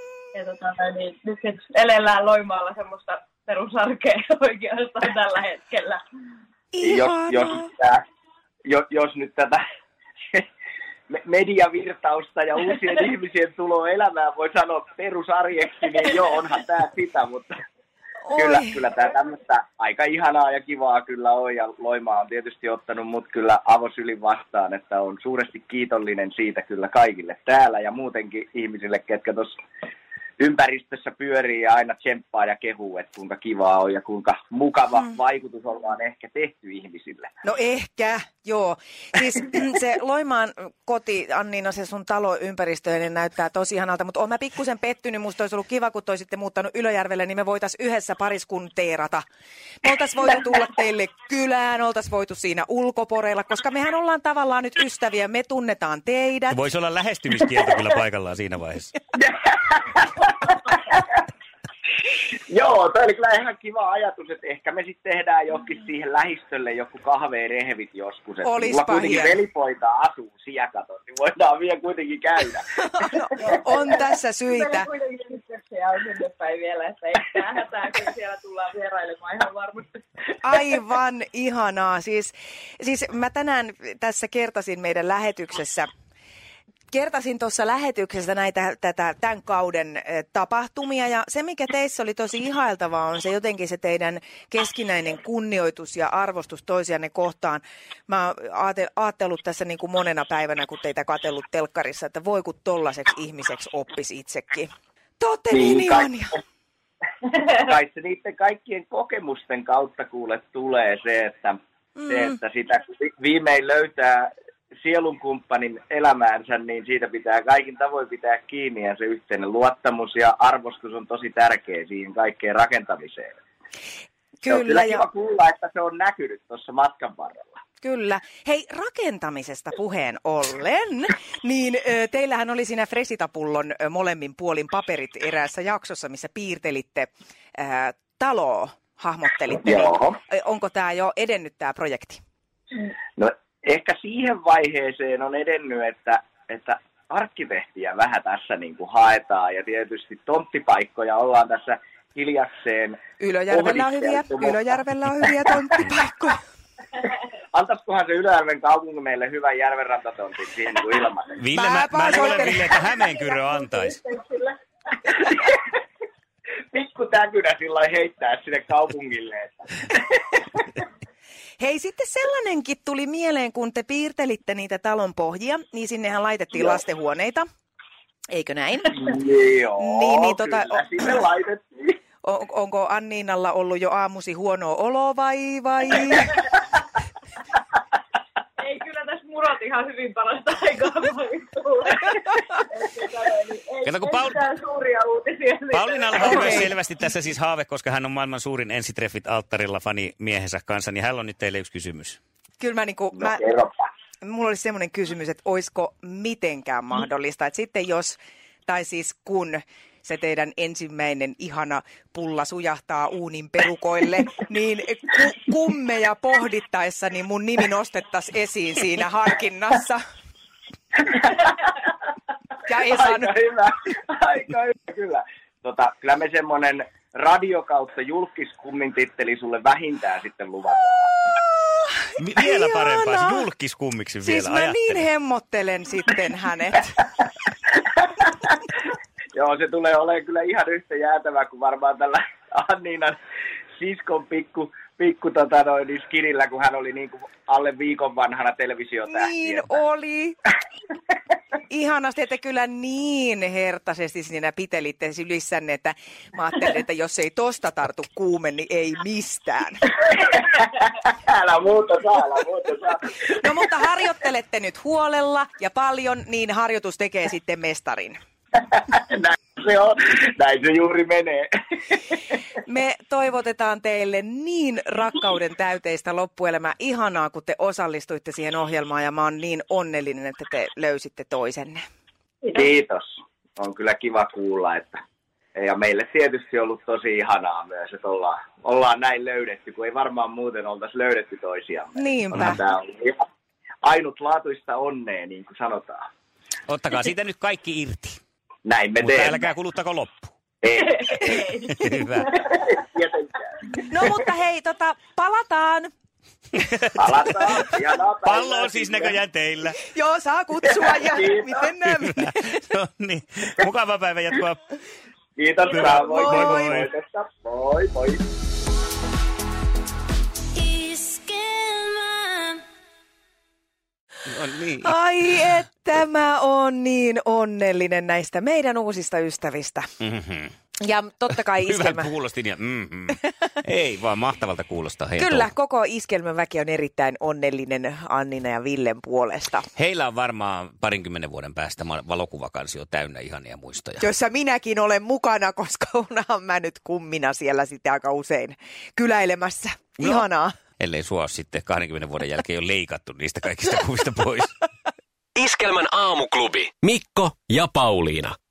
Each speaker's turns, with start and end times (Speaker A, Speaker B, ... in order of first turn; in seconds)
Speaker A: 0.3-6.0, 73.4-80.0, 162.1-164.6, 188.6-196.7, 300.8-302.4
Speaker B: 6.7-7.7, 18.2-18.8, 37.4-49.2, 49.8-56.6, 68.4-69.4, 72.8-74.9, 80.4-85.9, 86.9-106.3, 112.0-112.4, 124.4-125.0, 127.8-142.2, 153.2-156.4, 161.5-162.7, 171.6-177.5, 178.3-179.2, 179.8-180.9, 182.2-186.3, 196.2-196.7, 202.6-203.4, 204.2-220.0, 222.7-223.3, 231.8-233.5, 234.2-237.0, 249.1-250.4, 251.7-259.9, 263.4-268.2, 272.6-281.8, 292.0-292.6, 303.8-305.9, 309.8-312.6, 315.7-316.8, 324.8-329.9, 330.8-332.1, 335.2-339.7, 344.0-350.6
Speaker C: 6.8-8.0, 8.7-9.6, 11.1-17.6, 18.4-29.6, 30.4-37.3, 59.1-61.2, 62.1-72.7, 105.5-106.2, 107.5-123.3, 124.5-127.5, 139.6-140.2, 143.2-153.0, 153.5-154.6, 157.5-161.4, 165.1-165.7, 166.7-170.8, 178.9-182.0, 203.2-203.9, 221.0-221.8, 222.8-231.1, 237.7-238.7, 239.3-243.2, 243.8-249.8, 260.0-263.5, 268.6-272.2, 282.5-285.0, 285.6-293.2, 293.8-296.1, 298.6-299.5, 300.6-301.5, 302.3-304.2, 307.0-309.2, 310.7-311.7, 315.4-318.2
Speaker D: 56.5-59.0, 161.4-164.0, 193.8-194.5, 195.7-202.2, 232.2-235.0, 296.7-298.2, 299.0-300.3, 301.7-302.3, 306.6-307.2, 308.2-309.8, 312.0-314.6, 315.7-316.9, 324.3-325.0, 330.0-330.5, 331.6-335.5, 339.8-344.0, 350.8-354.6
Speaker E: 320.5-322.6
Speaker F: 355.4-358.4